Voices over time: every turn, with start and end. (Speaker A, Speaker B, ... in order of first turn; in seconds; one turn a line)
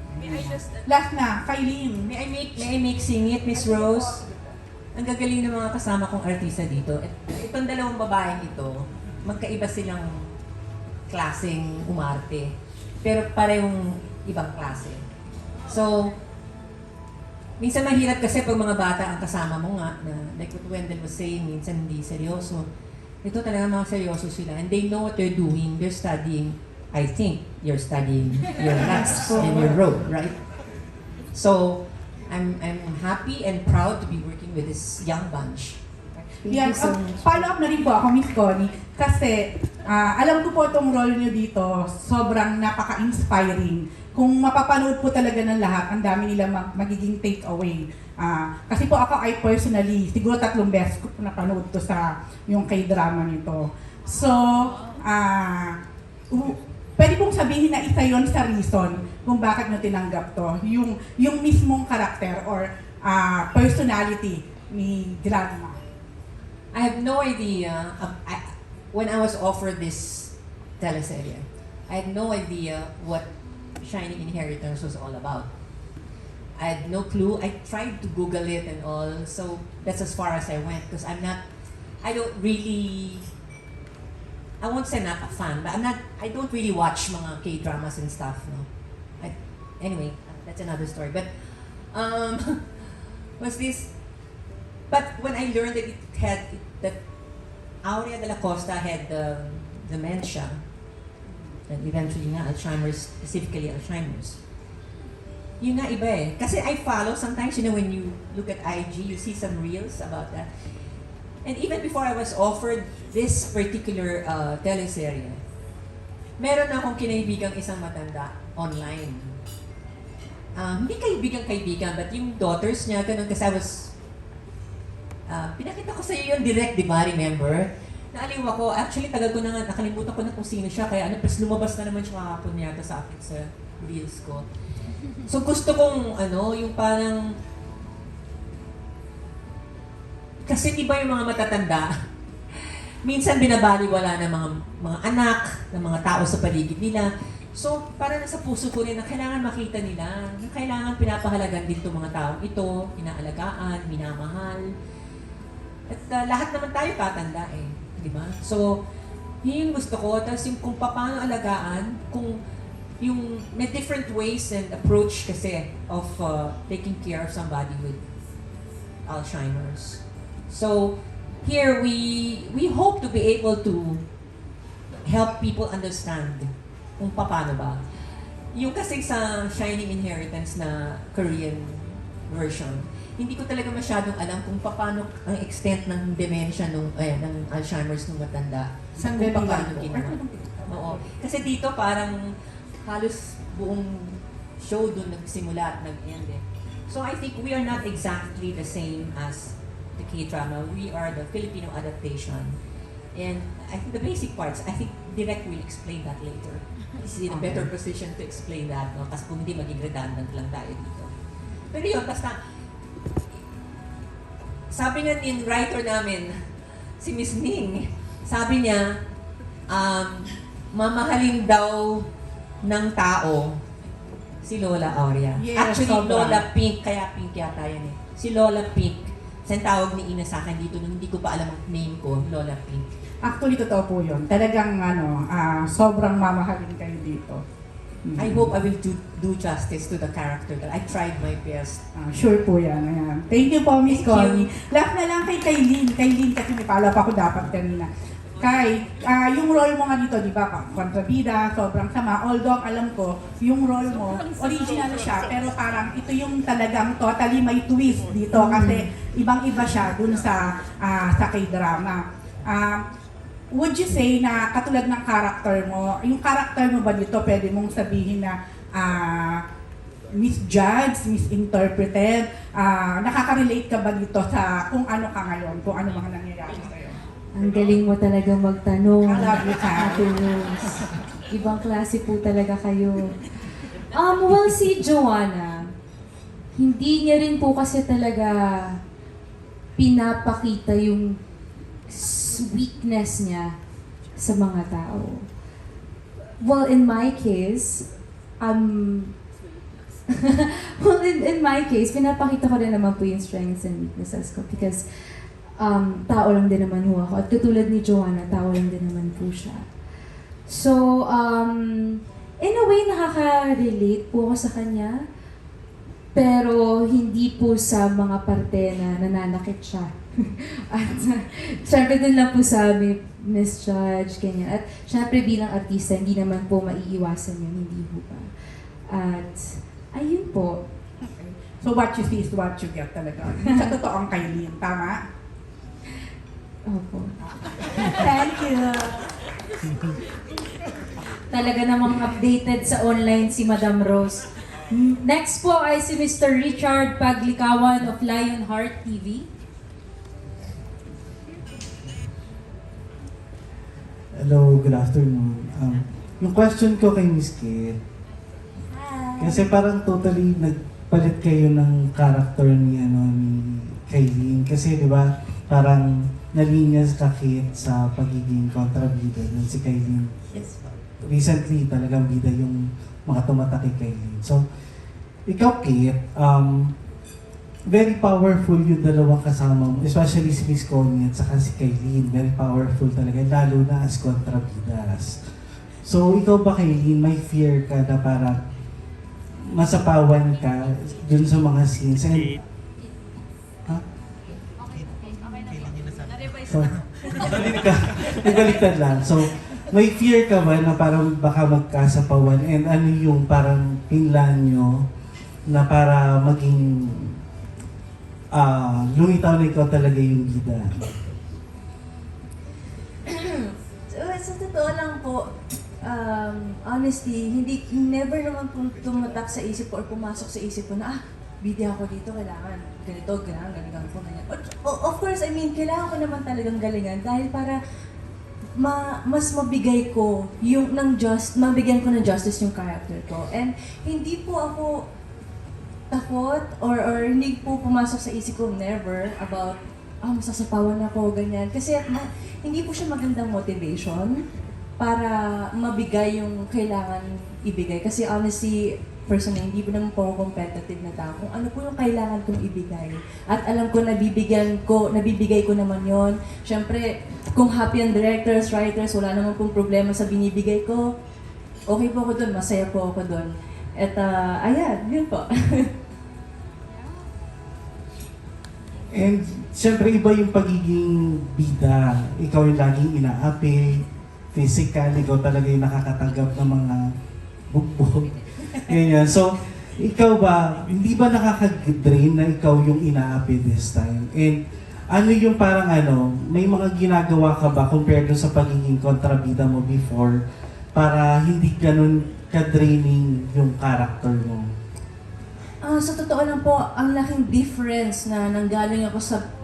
Speaker A: 0.2-2.1
Speaker B: 2.1-4.2
Speaker B: 5.0-10.3
Speaker B: 11.1-12.5
Speaker B: 13.0-15.0
Speaker B: 15.7-16.2
Speaker B: 17.6-22.7
Speaker B: 23.2-30.4
Speaker A: 29.1-29.8
Speaker C: 29.3-29.7
Speaker B: 31.3-35.8
Speaker C: 36.2-37.5
Speaker A: 36.5-55.8
Speaker A: 56.3-65.8
Speaker B: 66.7-73.2
Speaker B: 73.8-75.5
Speaker B: 76.6-81.4
Speaker B: 82.0-83.3
Speaker B: 84.6-88.7
Speaker B: 89.2-92.7
Speaker B: 93.4-93.9
Speaker B: 94.9-97.0
Speaker B: 97.8-100.6
Speaker B: 101.7-104.4
Speaker B: 105.6-110.5
Speaker B: 111.5-115.4
Speaker B: 116.4-119.4
Speaker B: 120.6-123.9
Speaker B: 125.3-134.5
Speaker B: 135.2-137.2
Speaker B: 140.5-141.9
Speaker B: 142.5-154.7
Speaker B: 155.9-158.8
Speaker B: 159.4-162.4
Speaker B: 163.0-168.0
Speaker B: 169.1-174.0
Speaker B: 175.1-177.8
Speaker B: 178.5-192.2
Speaker A: 189.0-191.1
Speaker B: 192.8-202.6
Speaker B: 203.2-211.1
Speaker B: 211.7-212.4
Speaker B: 214.7-216.4
Speaker B: 217.0-218.8
Speaker B: 219.7-222.1
Speaker B: 222.6-223.6
Speaker B: 224.4-232.8
Speaker A: 225.4-226.4
Speaker A: 233.2-237.4
Speaker A: 238.1-238.5
Speaker B: 238.2-241.8
Speaker A: 242.0-247.9
Speaker B: 243.9-244.5
Speaker A: 248.4-262.8
Speaker C: 258.3-258.9
Speaker A: 263.5-269.4
Speaker A: 270.1-277.0
Speaker C: 277.3-280.8
Speaker A: 279.1-280.1
Speaker C: 281.3-283.2
Speaker C: 283.9-285.6
Speaker C: 286.6-288.8
Speaker C: 289.8-291.1
Speaker C: 291.9-293.6
Speaker C: 294.2-295.3
Speaker C: 296.4-297.9
Speaker C: 298.4-299.1
Speaker C: 300.1-304.8
Speaker C: 305.6-309.6
Speaker C: 310.5-315.0
Speaker C: 316.1-328.3
Speaker C: 328.9-330.6
Speaker A: 331.0-335.0
Speaker C: 333.4-333.7
Speaker C: 336.7-337.1
Speaker C: 337.8-339.0
Speaker C: 341.3-349.3
Speaker D: 354.2-357.8
Speaker C: 358.8-359.1
Speaker D: 359.2-370.2
Speaker D: 371.0-374.4
Speaker D: 375.3-376.7
Speaker D: 377.7-385.2
Speaker D: 385.8-388.4
Speaker D: 389.5-392.4
Speaker D: 396.5-404.9
Speaker D: 405.5-407.2
Speaker D: 408.3-410.9
Speaker E: 413.1-415.3
Speaker E: 415.8-427.6
Speaker E: 428.6-434.7
Speaker E: 435.9-444.2
Speaker E: 444.8-460.9
Speaker E: 461.7-465.7
Speaker D: 468.9-476.9
Speaker D: 477.5-490.2
Speaker D: 490.8-494.5
Speaker E: 495.6-499.2